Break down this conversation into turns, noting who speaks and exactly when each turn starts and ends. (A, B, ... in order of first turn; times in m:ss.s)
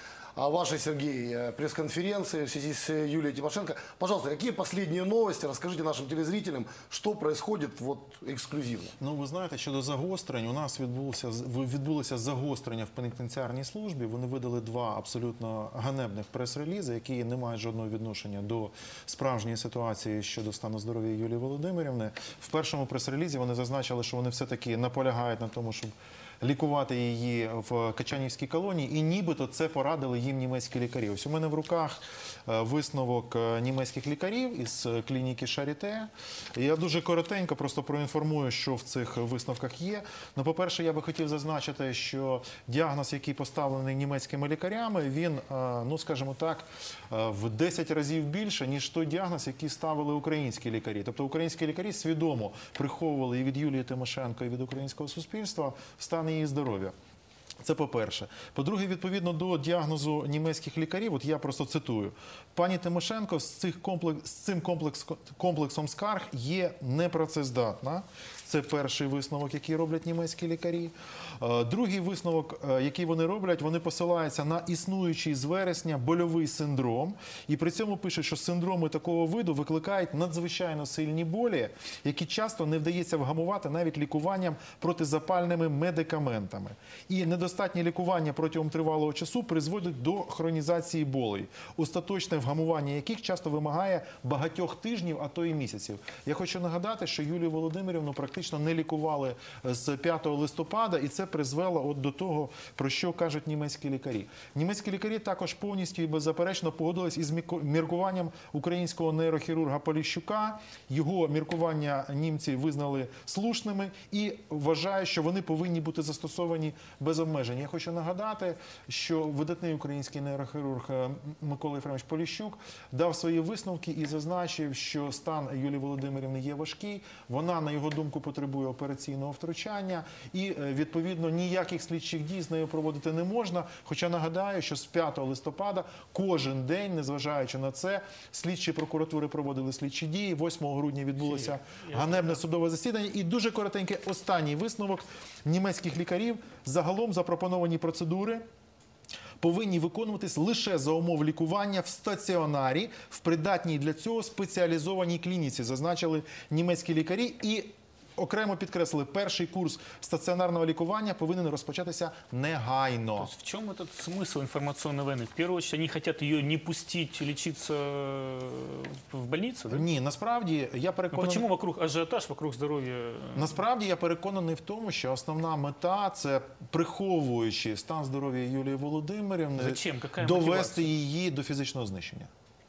0:00.4-0:09.0 A
0:09.0-0:56.9 B
0:57.6-2:28.4 B
2:21.2-2:22.4 C
2:29.4-2:43.3 B
2:43.2-2:49.9 C
2:49.7-2:51.5 B
2:51.1-2:53.6 C
2:53.4-3:02.3 B
2:59.6-3:00.9 C